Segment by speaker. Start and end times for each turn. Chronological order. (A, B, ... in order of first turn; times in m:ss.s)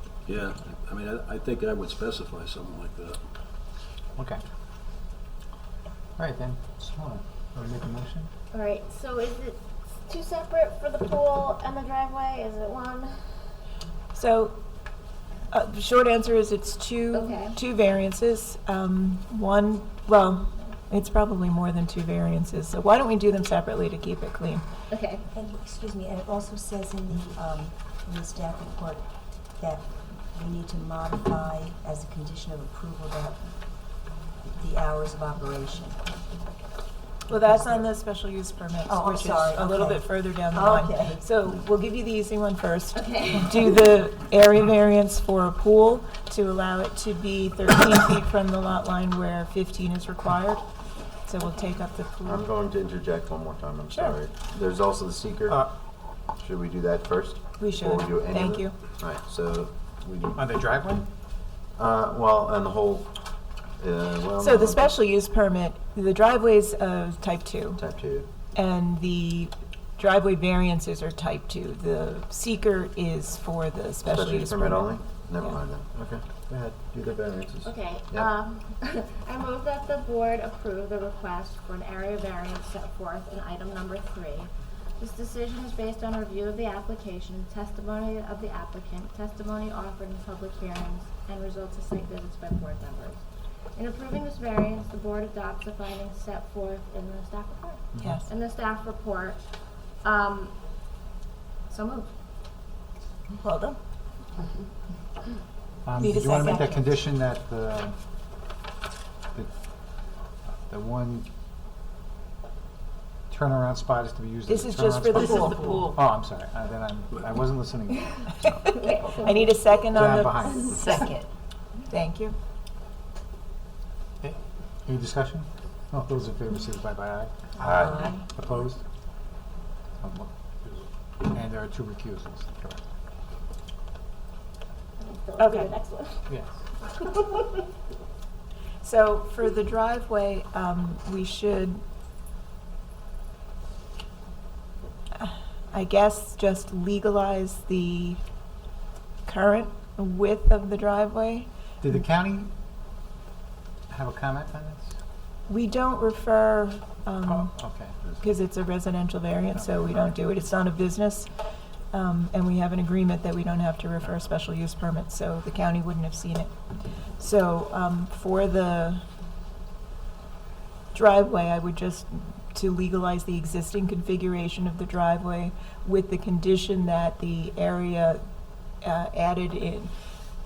0:00.3-0:03.2 A
0:06.2-0:08.3 B
0:08.5-0:13.5 C
0:14.2-0:14.6 D
0:15.5-0:24.6 D
0:17.1-0:17.6 C
0:24.9-0:25.2 C
0:25.3-0:36.0 E
0:37.3-0:50.6 D
0:37.4-0:37.8 E
0:38.9-0:41.2 E
0:43.0-0:43.4 C
0:51.2-0:52.4 D
0:52.2-0:55.6 F
0:53.9-0:54.2 D
0:56.3-1:00.4 F
0:57.6-0:58.7 D
1:00.4-1:01.1 B
1:01.8-1:03.2 F
1:03.8-1:04.9 F
1:04.4-1:07.8 D
1:07.8-1:08.3 F
1:08.5-1:15.6 D
1:14.1-1:18.3 F
1:17.6-1:33.2 C
1:33.8-1:40.6 C
1:38.0-1:38.2 B
1:38.0-1:38.3 D
1:41.7-1:42.1 C
1:43.4-1:43.8 D
1:45.8-1:48.0 B
1:46.0-1:46.9 D
1:50.7-1:51.3 B
1:53.3-1:58.5 B
1:54.5-1:55.8 D
1:58.4-2:01.0 D
1:58.7-1:59.8 C
1:59.9-2:00.7 B
2:00.6-2:00.9 C
2:00.6-2:01.3 E
2:01.9-2:02.4 D
2:04.2-2:08.8 B
2:07.6-2:08.0 F
2:07.6-2:08.2 D
2:10.0-2:10.3 B
2:11.2-2:12.8 B
2:15.0-2:17.6 C
2:15.4-2:15.7 D
2:16.3-2:16.6 B
2:18.8-2:21.8 D
2:25.2-2:28.2 D
2:29.2-2:31.5 D
2:31.8-2:32.5 B
2:33.9-2:35.0 B
2:35.5-2:41.3 D
2:37.3-2:38.0 B
2:39.5-2:40.0 B
2:41.9-2:49.0 D
2:50.9-2:58.2 D
2:58.8-2:59.9 D